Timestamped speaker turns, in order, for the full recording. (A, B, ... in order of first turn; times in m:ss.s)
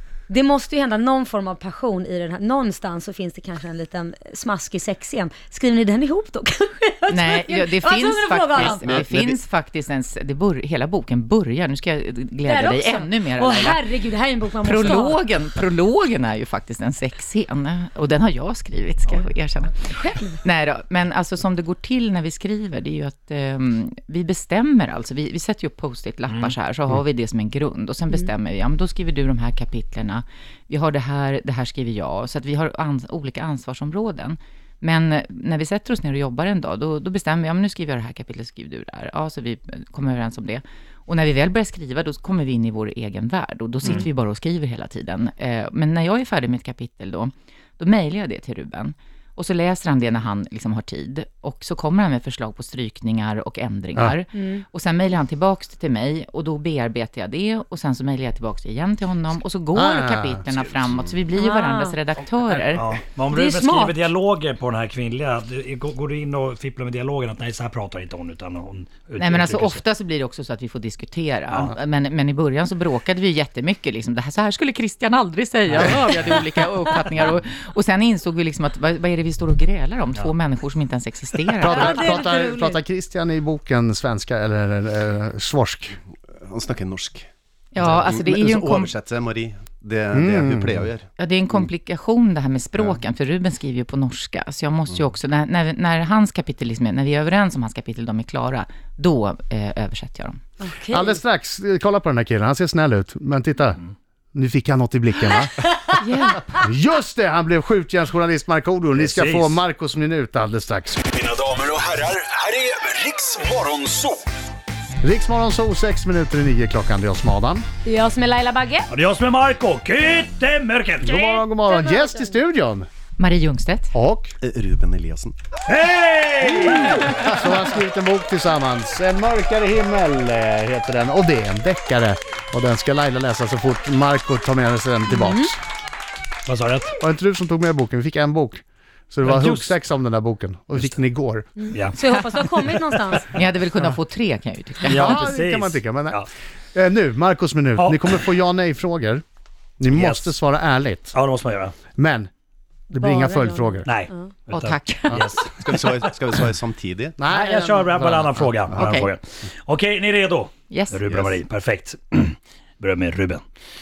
0:00.3-0:09.0 A
0:07.1-0:13.9 B
0:08.8-0:09.4 C
0:12.4-0:15.2 A
0:14.6-1:02.8 B
0:20.0-0:20.4 A
0:26.3-0:26.5 D
0:54.3-0:54.6 A
0:59.7-1:00.4 E
1:01.4-1:02.0 A
1:02.7-1:09.8 D
1:03.3-1:04.0 A
1:09.2-1:22.1 B
1:11.5-1:11.7 D
1:15.7-1:16.4 D
1:21.6-1:26.0 E
1:21.7-1:22.8 A
1:26.4-1:31.6 C
1:27.7-1:28.9 B
1:30.1-1:30.8 E
1:31.2-1:40.4 B
1:40.6-1:41.2 A
1:40.9-1:43.8 E
1:44.3-1:45.6 E
1:45.9-1:46.6 B
1:46.5-1:51.0 E
1:49.0-1:49.6 D
1:51.2-1:54.2 F
1:55.0-1:57.6 E
1:57.8-1:58.9 A
1:58.9-2:01.2 D
2:01.0-2:02.9 E
2:01.0-2:02.4 A
2:03.2-2:03.9 B
2:03.9-2:04.3 E
2:04.4-2:05.3 C
2:05.7-2:07.5 D
2:06.7-2:15.6 E
2:15.1-2:15.5 A
2:16.4-2:16.9 D
2:17.0-2:21.6 E
2:19.2-2:19.8 D
2:21.6-2:23.4 A
2:21.7-2:22.0 D
2:23.1-2:25.2 B
2:24.8-2:26.3 D
2:24.8-2:29.2 E
2:27.8-2:28.1 D
2:29.8-2:31.2 E
2:29.9-2:30.3 D
2:31.1-2:31.7 D
2:32.0-2:32.3 E
2:32.9-2:33.9 E
2:33.0-2:34.3 A
2:33.8-2:36.1 D
2:34.5-2:35.4 B
2:35.6-2:37.2 C
2:37.2-2:38.2 E
2:37.3-2:43.4 D
2:38.7-2:39.1 B
2:40.7-2:41.0 B